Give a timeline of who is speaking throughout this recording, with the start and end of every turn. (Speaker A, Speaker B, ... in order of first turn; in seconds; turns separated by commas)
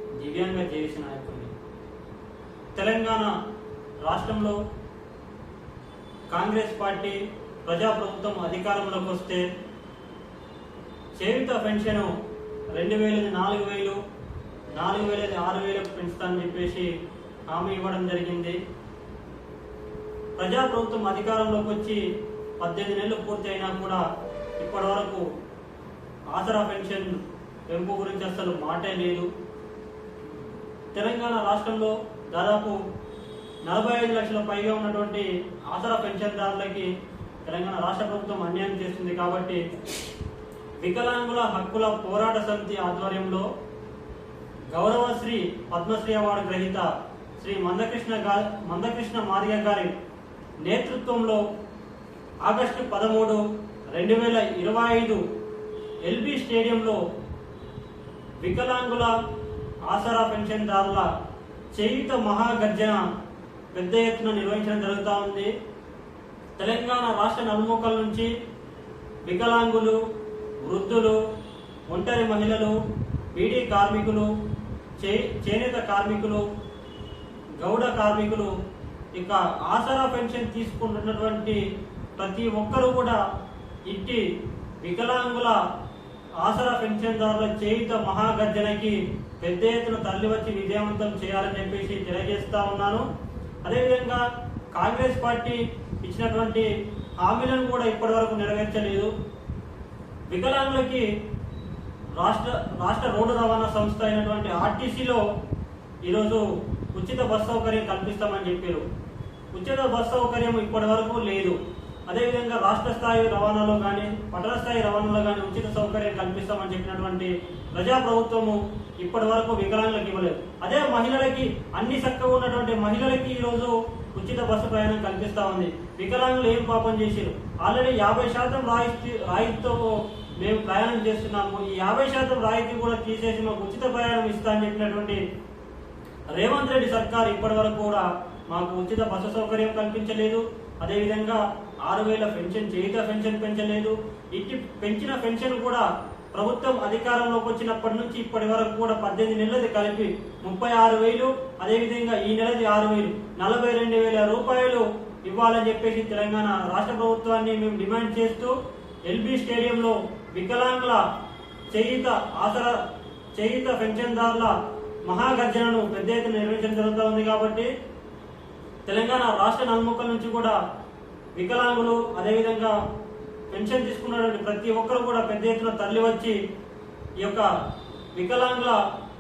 Speaker A: 0.2-1.5, Speaker A: 2.8-3.4, Speaker A: 4.0-4.6, Speaker A: 6.3-9.5, Speaker A: 11.2-12.1, Speaker A: 12.7-14.0, Speaker A: 14.8-16.9, Speaker A: 17.5-18.6, Speaker A: 20.4-24.0, Speaker A: 24.6-25.2, Speaker A: 26.3-29.3, Speaker A: 30.9-32.8, Speaker A: 33.6-36.9, Speaker A: 37.5-39.7, Speaker A: 40.8-43.5, Speaker A: 44.7-49.9, Speaker A: 50.6-51.4, Speaker A: 52.4-55.2, Speaker A: 56.0-57.0, Speaker A: 58.4-59.1, Speaker A: 59.9-61.1, Speaker A: 61.7-63.0, Speaker A: 63.7-65.5, Speaker A: 66.6-68.3, Speaker A: 69.2-70.0, Speaker A: 70.6-71.2, Speaker A: 71.9-72.8, Speaker A: 73.3-74.3, Speaker A: 75.0-76.5, Speaker A: 77.6-78.5, Speaker A: 79.2-81.6, Speaker A: 82.2-83.2, Speaker A: 83.9-84.3, Speaker A: 84.8-85.6, Speaker A: 86.4-93.1, Speaker A: 93.6-96.7, Speaker A: 97.2-99.1, Speaker A: 100.3-101.1, Speaker A: 102.2-105.2, Speaker A: 106.0-108.8, Speaker A: 109.5-111.6, Speaker A: 112.1-135.2, Speaker A: 136.3-158.6, Speaker A: 159.1-161.1, Speaker A: 161.7-162.8, Speaker A: 163.4-167.7, Speaker A: 168.9-170.6, Speaker A: 171.3-172.8, Speaker A: 173.5-176.4, Speaker A: 177.2-177.5, Speaker A: 178.1-178.8